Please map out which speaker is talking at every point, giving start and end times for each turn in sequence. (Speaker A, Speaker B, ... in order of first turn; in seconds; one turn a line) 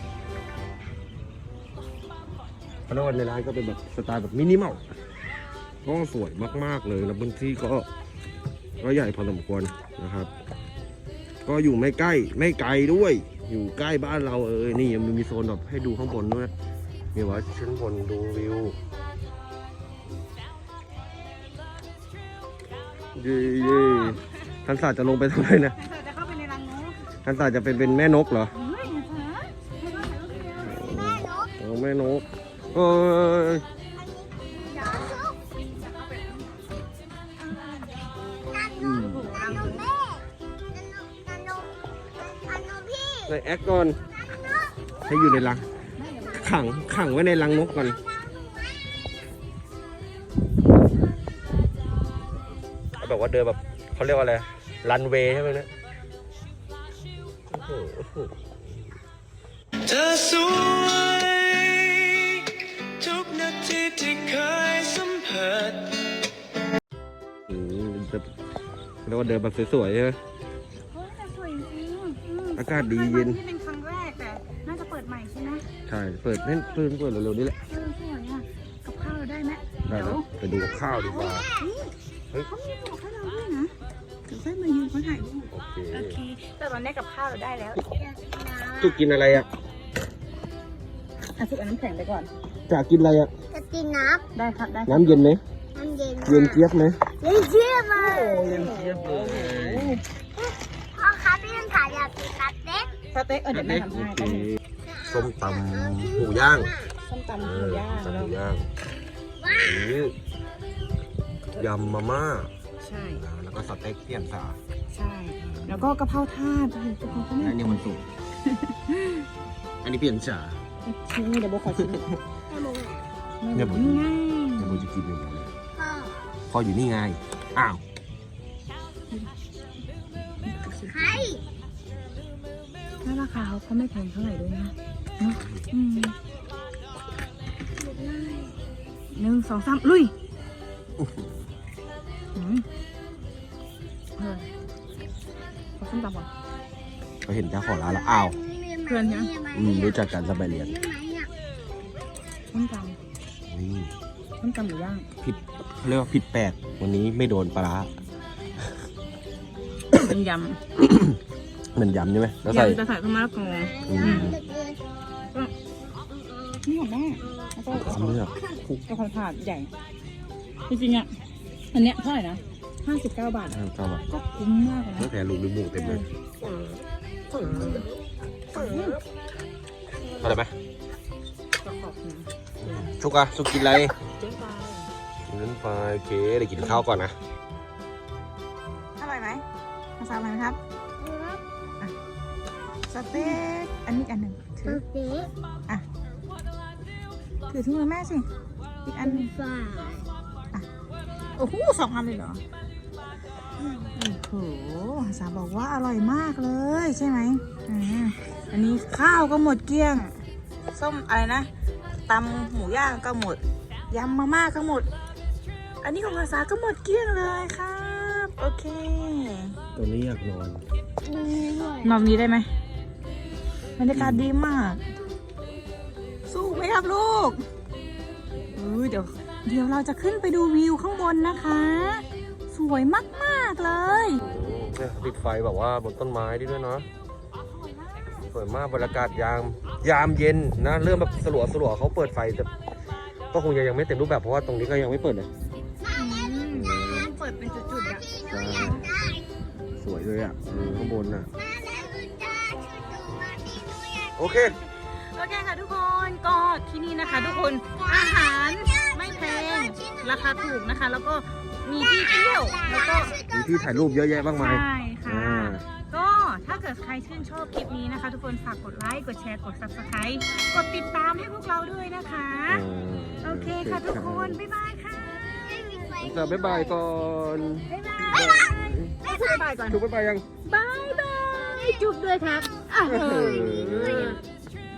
Speaker A: 2.9-4.8
Speaker A: 5.8-7.9
Speaker A: 8.8-10.3
Speaker A: 11.4-16.5
Speaker A: 17.1-18.8
Speaker A: 23.1-25.7
Speaker B: 23.5-24.2
Speaker B: 25.8-27.0
Speaker A: 27.2-28.5
Speaker B: 28.5-29.7
Speaker C: 29.8-31.5
Speaker A: 30.5-33.6
Speaker C: 34.0-35.4
Speaker B: 34.6-36.6
Speaker B: 37.4-37.8
Speaker C: 38.5-39.1
Speaker A: 38.8-39.8
Speaker B: 38.9-39.9
Speaker C: 39.7-43.3
Speaker A: 43.2-44.0
Speaker C: 44.3-44.8
Speaker A: 45.0-45.7
Speaker B: 46.0-46.7
Speaker A: 46.3-48.0
Speaker C: 47.9-48.8
Speaker A: 53.0-55.7
Speaker A: 57.5-58.3
Speaker D: 59.8-62.5
Speaker D: 63.0-66.0
Speaker A: 67.5-68.3
Speaker A: 69.0-70.2
Speaker B: 70.9-75.7
Speaker A: 72.5-73.4
Speaker A: 75.8-77.6
Speaker B: 76.5-76.8
Speaker B: 77.7-80.2
Speaker A: 79.8-81.5
Speaker C: 80.9-81.7
Speaker B: 81.6-81.9
Speaker B: 82.4-83.7
Speaker B: 84.3-87.8
Speaker A: 85.5-86.2
Speaker C: 87.8-89.0
Speaker A: 88.7-89.5
Speaker B: 91.3-92.3
Speaker A: 92.7-93.3
Speaker C: 93.5-94.2
Speaker B: 94.3-95.2
Speaker A: 94.8-95.4
Speaker C: 95.7-96.6
Speaker A: 96.2-97.1
Speaker C: 97.2-98.8
Speaker A: 98.0-100.0
Speaker B: 98.0-100.0
Speaker C: 100.9-102.9
Speaker B: 103.1-104.5
Speaker A: 103.5-106.7
Speaker C: 105.1-106.9
Speaker B: 107.0-108.3
Speaker A: 107.3-108.7
Speaker C: 109.4-110.0
Speaker A: 109.5-110.1
Speaker B: 111.5-111.9
Speaker A: 111.5-112.5
Speaker B: 112.8-113.2
Speaker A: 113.1-114.6
Speaker B: 114.9-117.7
Speaker A: 115.4-115.9
Speaker A: 117.1-118.0
Speaker B: 118.4-119.3
Speaker A: 119.8-120.6
Speaker B: 120.8-122.1
Speaker A: 121.8-122.1
Speaker C: 122.5-123.0
Speaker B: 123.4-124.8
Speaker A: 123.5-125.5
Speaker C: 125.8-126.3
Speaker A: 126.5-127.8
Speaker B: 130.4-131.3
Speaker C: 130.9-131.4
Speaker B: 133.0-136.2
Speaker A: 135.3-135.6
Speaker C: 137.8-138.6
Speaker B: 139.1-140.1
Speaker B: 142.3-142.7
Speaker B: 144.2-144.5
Speaker B: 145.8-146.3
Speaker A: 147.2-148.4
Speaker C: 147.7-151.3
Speaker B: 148.8-149.3
Speaker A: 149.4-150.8
Speaker B: 152.5-153.0
Speaker A: 153.5-153.9
Speaker B: 154.4-155.1
Speaker A: 155.2-157.9
Speaker B: 159.9-160.6
Speaker A: 160.8-161.2
Speaker A: 161.7-162.8
Speaker B: 162.4-164.3
Speaker C: 163.7-164.8
Speaker A: 163.8-164.4
Speaker C: 166.1-166.6
Speaker B: 166.6-168.3
Speaker A: 167.7-168.8
Speaker B: 168.9-169.7
Speaker B: 170.7-171.1
Speaker B: 171.7-173.6
Speaker A: 173.5-174.1
Speaker B: 174.1-175.1
Speaker A: 174.9-176.0
Speaker B: 175.7-176.8
Speaker A: 177.3-177.9
Speaker B: 177.3-177.9
Speaker B: 178.5-179.0
Speaker A: 178.5-179.0
Speaker B: 180.0-180.3
Speaker A: 180.2-180.5
Speaker B: 181.6-182.9
Speaker A: 182.6-184.0
Speaker B: 184.0-184.9
Speaker A: 185.3-187.1
Speaker B: 186.6-186.8
Speaker B: 189.0-189.4
Speaker B: 190.0-190.6
Speaker C: 191.0-191.4
Speaker B: 192.9-194.8
Speaker C: 194.7-195.3
Speaker B: 197.5-198.3
Speaker B: 198.8-199.3
Speaker C: 199.0-200.1
Speaker B: 201.4-202.4
Speaker C: 203.6-203.9
Speaker B: 203.9-210.1
Speaker B: 210.7-211.5
Speaker B: 212.1-214.9
Speaker B: 215.8-219.6
Speaker A: 219.7-220.6
Speaker C: 221.0-222.0
Speaker B: 221.8-222.5
Speaker B: 223.8-224.8
Speaker A: 223.9-224.3
Speaker B: 226.3-227.4
Speaker B: 228.6-234.2
Speaker A: 234.2-236.9
Speaker B: 237.4-238.1
Speaker A: 238.2-242.5
Speaker A: 243.3-245.3
Speaker B: 245.8-248.8
Speaker A: 246.5-247.1
Speaker C: 247.8-249.2
Speaker A: 248.2-248.9
Speaker A: 249.8-251.3
Speaker B: 250.6-251.0
Speaker C: 251.3-254.2
Speaker A: 254.2-254.6
Speaker B: 254.6-263.2
Speaker C: 257.8-260.6
Speaker C: 261.8-264.2
Speaker A: 263.3-265.6
Speaker B: 264.3-272.6
Speaker A: 272.5-274.4
Speaker B: 273.2-275.3
Speaker C: 275.2-276.8
Speaker A: 275.9-279.0
Speaker B: 277.7-279.8
Speaker C: 278.0-278.5
Speaker C: 279.0-279.4
Speaker A: 279.6-280.2
Speaker B: 280.4-284.2
Speaker C: 281.5-282.6
Speaker A: 282.8-284.2